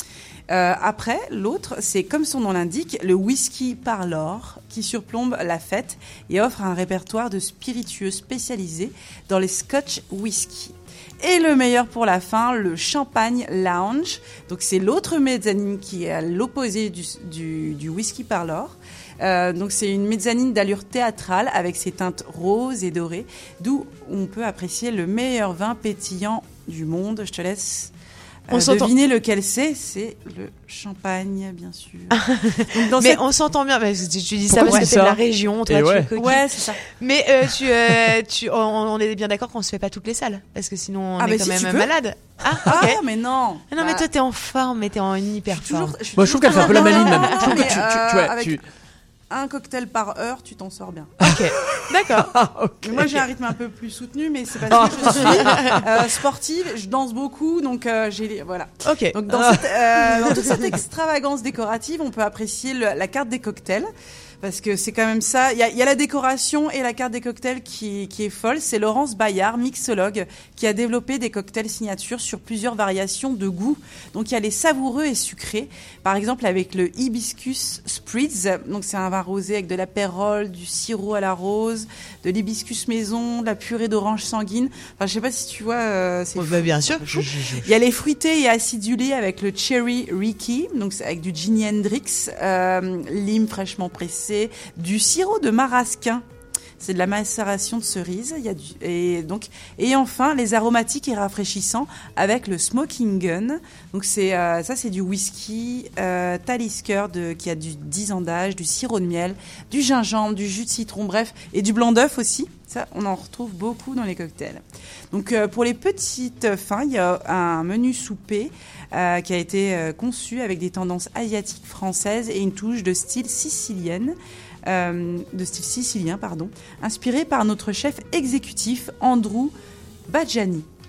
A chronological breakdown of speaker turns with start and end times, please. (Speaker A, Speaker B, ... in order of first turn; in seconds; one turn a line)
Speaker A: 0.5-27.9
Speaker A: 28.5-33.3
Speaker B: 28.5-28.9
Speaker B: 32.1-43.0
Speaker C: 34.5-36.1
Speaker A: 34.6-34.9
Speaker A: 36.1-36.8
Speaker A: 41.2-41.9
Speaker A: 42.6-44.0
Speaker B: 43.7-47.6
Speaker A: 45.5-48.6
Speaker C: 46.2-48.6
Speaker A: 49.3-51.2
Speaker B: 51.2-52.3
Speaker C: 51.2-53.2
Speaker A: 52.8-63.9
Speaker C: 54.7-55.8
Speaker B: 55.0-55.8
Speaker B: 58.8-59.2
Speaker C: 59.3-59.6
Speaker C: 60.2-60.7
Speaker A: 64.4-96.2
Speaker B: 86.3-87.7
Speaker A: 96.8-124.1
Speaker A: 124.7-129.5
Speaker A: 130.1-130.7